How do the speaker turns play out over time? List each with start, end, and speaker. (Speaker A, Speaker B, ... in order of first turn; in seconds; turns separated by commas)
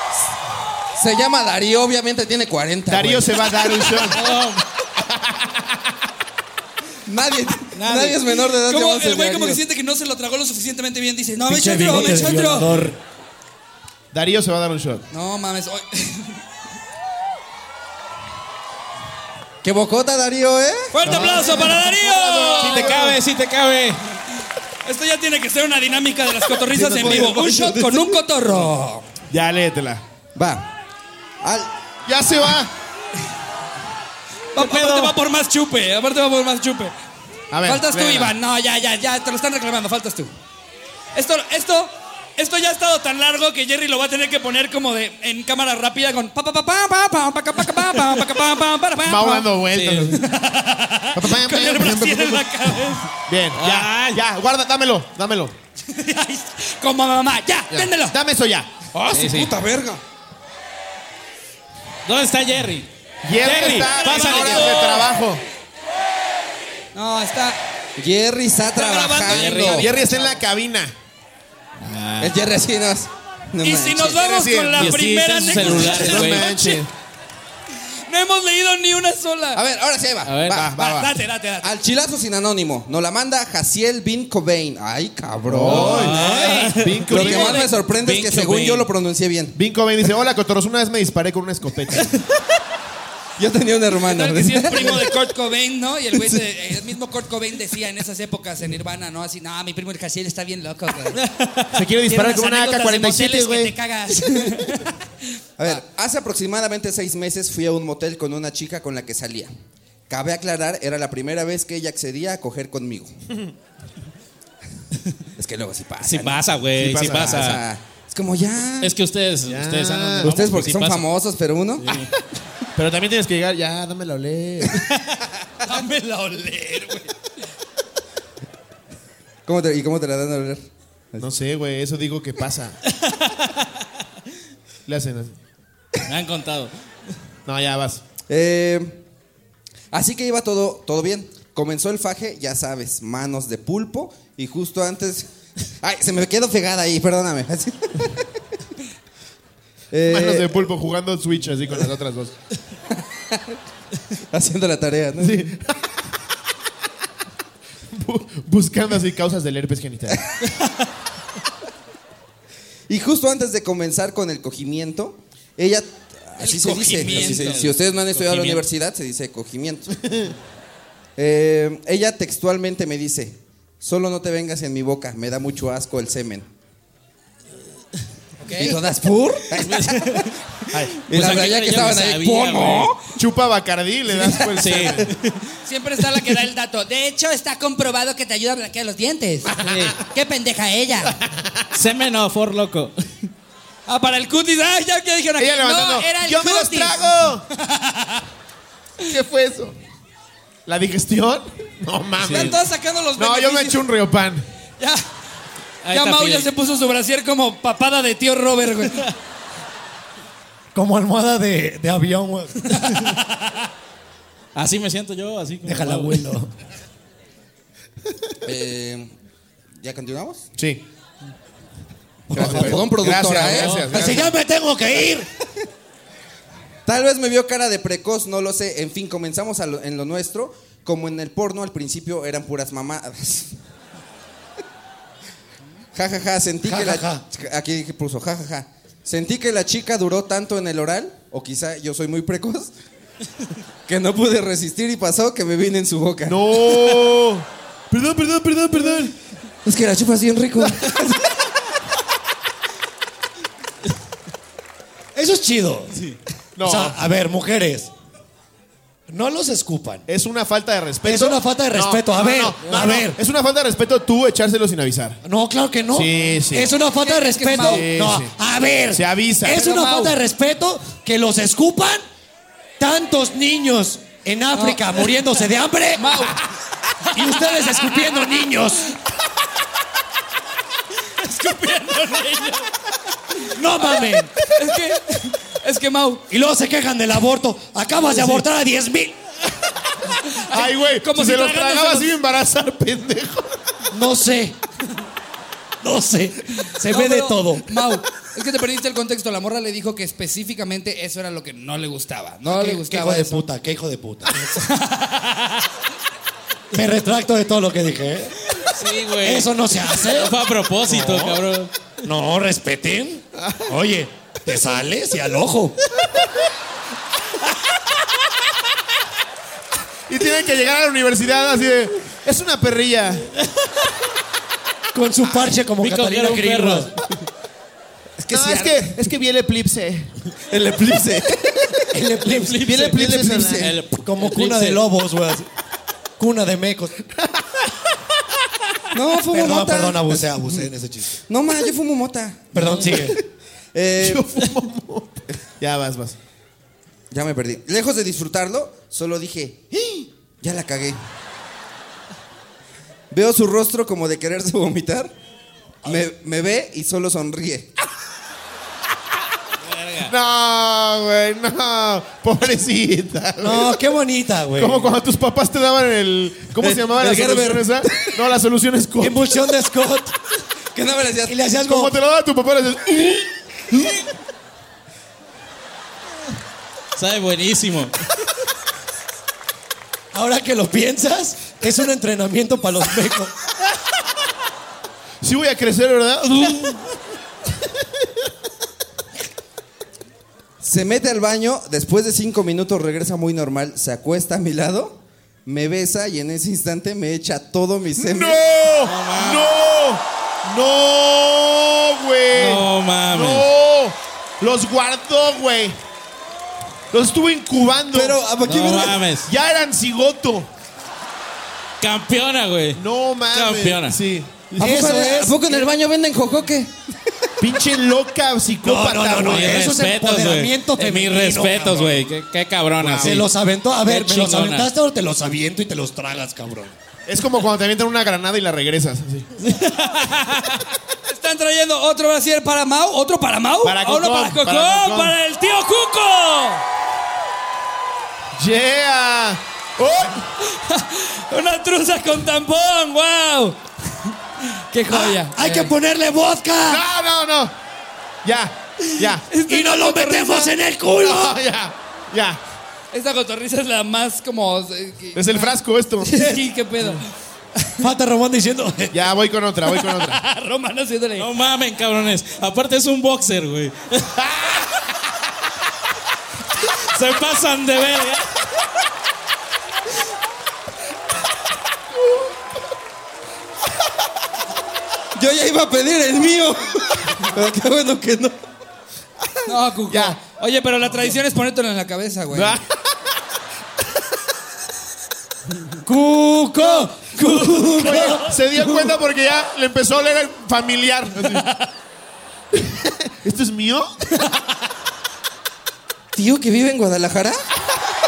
Speaker A: 0.9-3.9, Speaker B: 2.9-4.3, Speaker C: 4.0-4.6, Speaker B: 5.0-5.8, Speaker A: 7.0-9.6, Speaker C: 7.8-8.3, Speaker D: 8.4-12.7, Speaker E: 11.5-13.0, Speaker B: 14.1-15.1, Speaker D: 15.1-16.4, Speaker A: 19.6-21.3, Speaker D: 20.9-23.0, Speaker B: 21.0-23.2, Speaker C: 22.6-24.0, Speaker D: 24.8-29.1, Speaker B: 26.8-27.2, Speaker E: 26.9-28.1, Speaker B: 29.3-30.0, Speaker A: 30.3-30.7, Speaker A: 31.4-31.7, Speaker B: 32.0-32.7, Speaker D: 34.5-36.9, Speaker B: 34.6-35.1, Speaker B: 37.5-38.3, Speaker D: 37.6-40.3, Speaker D: 41.1-49.5, Speaker B: 49.0-50.2, Speaker C: 49.7-50.1, Speaker D: 50.1-53.1, Speaker B: 51.1-55.5, Speaker C: 53.5-54.2, Speaker D: 55.9-58.1, Speaker B: 57.7-58.7, Speaker C: 58.9-59.5, Speaker A: 59.0-60.0, Speaker C: 62.0-62.9, Speaker B: 63.2-65.4, Speaker C: 63.4-65.0, Speaker D: 63.9-65.0, Speaker D: 66.9-67.6, Speaker A: 68.0-69.9, Speaker D: 68.7-70.4, Speaker C: 69.2-69.8, Speaker B: 69.6-70.9, Speaker C: 71.8-72.4, Speaker A: 72.2-74.3, Speaker D: 73.6-76.8, Speaker B: 74.1-76.9, Speaker C: 74.8-76.5, Speaker A: 75.6-76.2, Speaker D: 78.1-79.6, Speaker A: 79.5-80.7, Speaker C: 80.2-80.6, Speaker B: 80.5-81.2, Speaker D: 80.8-81.7, Speaker A: 81.6-86.2, Speaker B: 85.5-86.2, Speaker C: 85.7-88.9, Speaker D: 85.8-87.7, Speaker E: 86.1-86.7, Speaker B: 86.7-87.7, Speaker A: 87.1-89.6, Speaker B: 89.5-92.1, Speaker A: 93.4-95.1, Speaker D: 94.0-101.2, Speaker C: 101.1-101.7, Speaker B: 101.7-103.7, Speaker D: 102.0-105.0, Speaker A: 105.6-109.5, Speaker A: 110.1-113.1, Speaker A: 115.4-118.9, Speaker C: 116.0-117.6, Speaker B: 116.8-117.5, Speaker C: 118.8-121.0, Speaker B: 119.5-120.3, Speaker A: 120.2-122.0, Speaker C: 121.8-122.1, Speaker B: 122.8-124.9, Speaker D: 125.6-127.1, Speaker A: 129.4-131.3, Speaker B: 131.2-132.8, Speaker C: 133.1-133.5, Speaker B: 134.8-135.4, Speaker C: 136.1-136.7, Speaker B: 137.4-138.0, Speaker A: 138.3-139.0, Speaker A: 139.9-145.3, Speaker A: 145.8-148.3, Speaker A: 149.9-150.7, Speaker B: 150.1-152.3, Speaker A: 153.2-153.6, Speaker A: 154.3-155.5, Speaker B: 155.2-155.8, Speaker B: 157.9-160.2, Speaker A: 162.9-169.9, Speaker D: 166.4-167.7, Speaker C: 166.6-168.7, Speaker B: 170.0-170.3, Speaker A: 171.2-176.5, Speaker D: 178.4-178.8, Speaker A: 178.5-180.3, Speaker C: 179.5-180.3, Speaker B: 180.7-181.4, Speaker C: 181.1-182.9, Speaker A: 181.1-183.0, Speaker B: 183.1-185.1, Speaker C: 184.4-185.4, Speaker D: 185.6-191.2, Speaker C: 189.5-190.0, Speaker B: 191.0-191.7, Speaker C: 191.7-193.0, Speaker D: 193.9-198.2, Speaker B: 195.4-197.4, Speaker B: 199.0-199.8, Speaker B: 200.7-202.6, Speaker C: 202.2-202.6, Speaker D: 202.3-203.9, Speaker B: 203.2-204.4, Speaker D: 204.8-205.0, Speaker C: 205.8-206.5, Speaker D: 205.9-209.1, Speaker E: 210.7-212.9, Speaker D: 212.8-213.2, Speaker C: 214.5-216.2, Speaker E: 215.6-216.5, Speaker A: 218.4-219.1, Speaker A: 219.8-220.5, Speaker B: 220.6-220.8, Speaker E: 222.3-222.9, Speaker A: 222.3-224.3, Speaker B: 222.3-224.3, Speaker C: 223.6-223.9, Speaker E: 223.9-225.3, Speaker A: 226.8-233.5, Speaker A: 235.9-242.7, Speaker E: 236.6-237.2, Speaker A: 243.8-247.0, Speaker B: 246.3-249.1, Speaker A: 249.7-251.2, Speaker E: 255.1-256.0, Speaker B: 256.0-257.0, Speaker E: 256.6-257.9, Speaker E: 259.1-260.0, Speaker B: 260.1-265.2, Speaker E: 261.0-263.2, Speaker E: 265.2-272.0, Speaker B: 265.9-266.7, Speaker D: 266.9-267.9, Speaker B: 267.6-268.3, Speaker B: 268.9-269.6, Speaker D: 269.4-270.1, Speaker E: 272.8-276.4, Speaker D: 274.5-275.1, Speaker D: 275.9-276.5, Speaker D: 277.0-278.0, Speaker E: 277.1-278.9, Speaker D: 281.2-282.7, Speaker D: 283.4-286.2, Speaker E: 283.6-284.3, Speaker E: 286.3-289.2, Speaker D: 290.1-292.1, Speaker B: 290.5-293.8, Speaker E: 293.9-294.6, Speaker E: 295.8-297.9, Speaker D: 296.8-303.4, Speaker E: 302.5-304.6, Speaker D: 304.5-305.5, Speaker E: 306.7-308.6, Speaker C: 308.5-311.9, Speaker E: 309.2-311.4, Speaker E: 312.0-315.8, Speaker B: 313.3-313.7, Speaker B: 320.1-323.3, Speaker E: 324.9-326.9, Speaker C: 325.8-326.9, Speaker A: 328.2-329.1, Speaker B: 328.3-330.1, Speaker A: 330.5-331.9, Speaker E: 331.9-332.9, Speaker A: 332.5-333.8, Speaker B: 332.6-333.7, Speaker C: 333.6-334.8, Speaker E: 334.0-335.5, Speaker E: 336.2-337.0, Speaker B: 337.1-337.7, Speaker A: 338.9-340.6, Speaker E: 339.3-341.2, Speaker A: 341.2-343.2, Speaker E: 342.5-343.2, Speaker A: 343.7-344.3, Speaker B: 344.0-346.2, Speaker A: 347.1-351.0, Speaker A: 353.1-355.1, Speaker A: 355.8-357.7, Speaker C: 359.6-360.1, Speaker B: 360.0-363.8, Speaker E: 363.4-364.9, Speaker B: 364.6-369.2, Speaker A: 366.6-368.1, Speaker E: 369.0-370.1, Speaker A: 370.7-371.3, Speaker E: 371.2-371.9, Speaker B: 371.6-374.1, Speaker C: 376.9-378.0, Speaker E: 380.1-383.3, Speaker B: 385.2-386.9, Speaker B: 387.8-388.1, Speaker A: 390.6-398.4, Speaker B: 397.9-405.8, Speaker C: 398.8-399.5, Speaker C: 402.3-403.4, Speaker B: 406.9-408.2, Speaker A: 407.9-409.1, Speaker C: 408.4-409.3, Speaker B: 409.2-410.5, Speaker C: 411.8-414.0, Speaker B: 412.7-414.7, Speaker A: 414.6-416.7, Speaker E: 414.6-415.6, Speaker B: 417.4-419.8, Speaker E: 418.6-422.0, Speaker C: 419.2-423.2, Speaker B: 422.8-423.2, Speaker E: 423.0-426.7, Speaker C: 423.9-424.7, Speaker B: 427.1-429.3, Speaker C: 429.4-430.6, Speaker D: 431.1-436.6, Speaker B: 433.6-435.1, Speaker B: 438.3-440.2, Speaker D: 440.4-445.7, Speaker E: 444.9-446.8, Speaker B: 446.7-447.5, Speaker B: 448.2-449.2, Speaker D: 449.3-450.5, Speaker E: 449.5-451.4, Speaker B: 451.0-452.4, Speaker D: 452.9-457.0, Speaker B: 455.1-456.4, Speaker E: 457.8-459.0, Speaker B: 458.9-460.2, Speaker D: 459.7-461.3, Speaker C: 461.2-464.3, Speaker C: 466.7-468.4, Speaker B: 472.0-472.3, Speaker A: 475.1-478.4, Speaker B: 479.2-480.2, Speaker D: 479.4-482.6, Speaker B: 482.3-482.8, Speaker E: 485.8-488.4, Speaker D: 487.2-488.3, Speaker B: 487.7-491.5, Speaker D: 491.3-491.6, Speaker B: 492.5-493.9, Speaker A: 496.1-497.5